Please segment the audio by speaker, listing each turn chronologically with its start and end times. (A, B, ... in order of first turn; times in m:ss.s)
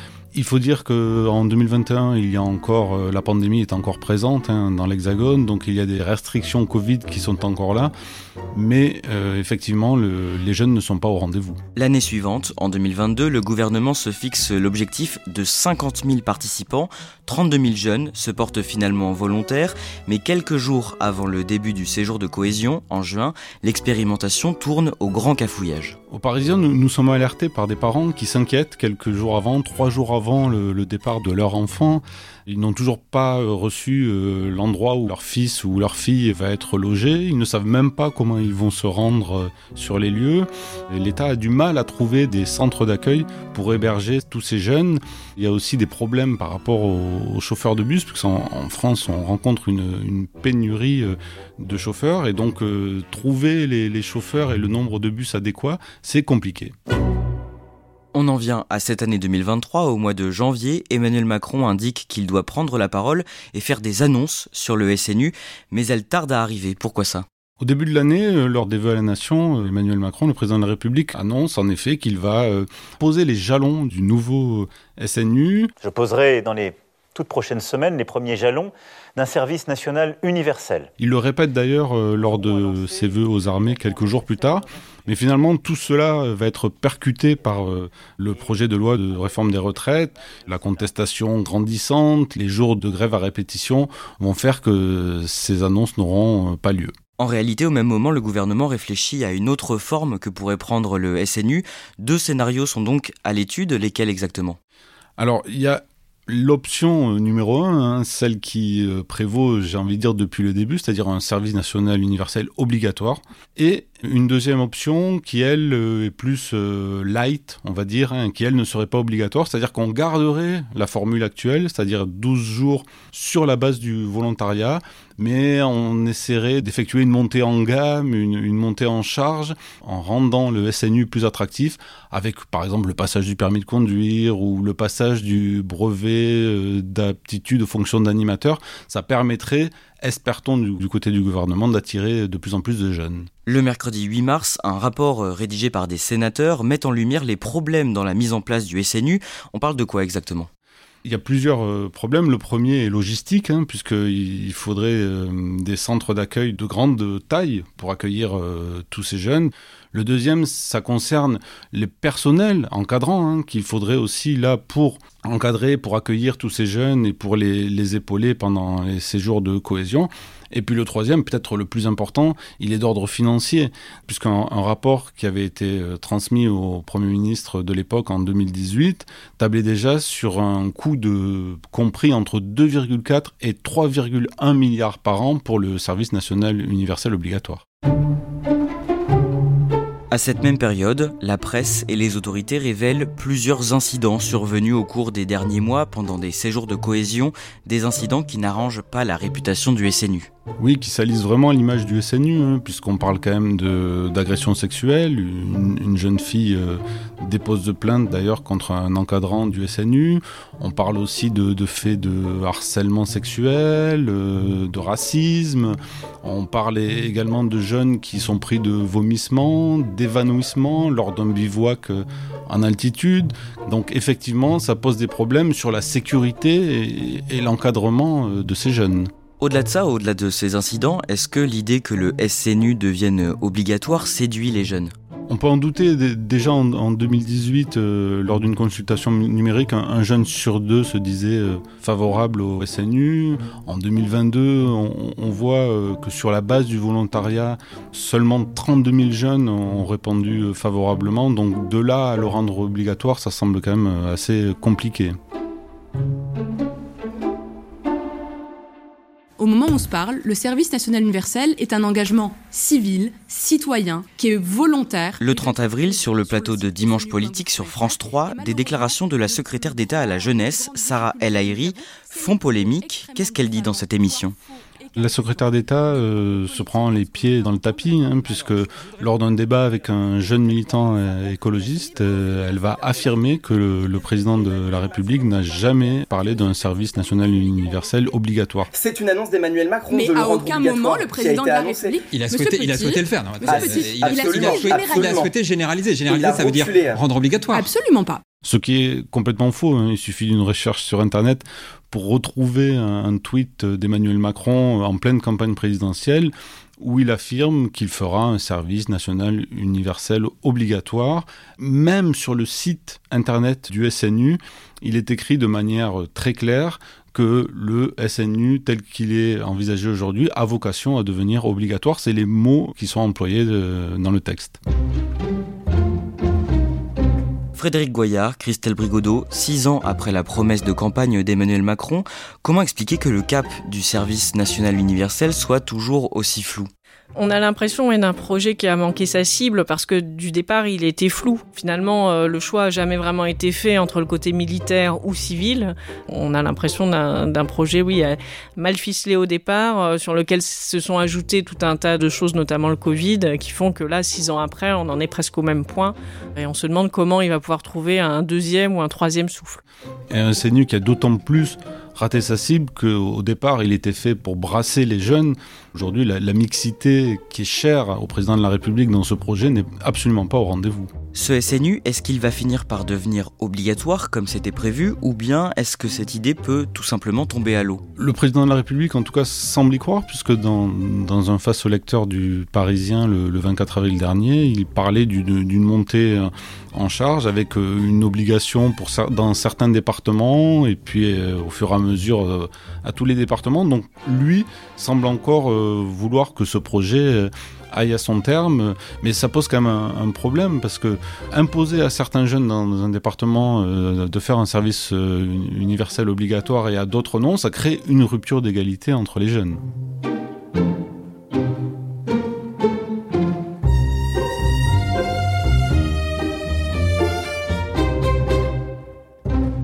0:00.3-0:07.9 A
0:08.5-0:11.6 A
0:11.8-0:26.0 B
0:26.1-0:56.7 A
0:58.1-1:07.2 B
1:07.6-1:15.7 A
1:15.8-1:20.9 C
1:21.0-1:36.9 A
1:37.2-1:44.6 B
1:45.2-2:23.3 A
2:23.5-2:30.5 B
2:31.0-3:07.6 A
3:10.1-3:20.3 B
3:20.6-3:49.1 A
3:49.4-3:54.9 B
3:55.3-4:15.2 A
4:19.4-4:35.3 D
4:25.2-4:34.4 B
4:35.0-4:48.7 A
4:48.7-4:52.0 E
4:49.9-4:55.2 D
4:52.1-4:57.7 F
4:53.4-4:55.3 E
4:56.1-4:57.0 E
4:57.5-4:58.2 D
4:58.4-5:24.6 A
5:27.6-5:36.7 B
5:37.2-5:59.6 G
6:00.1-6:10.9 A
6:11.2-6:17.8 B
6:18.0-6:49.6 A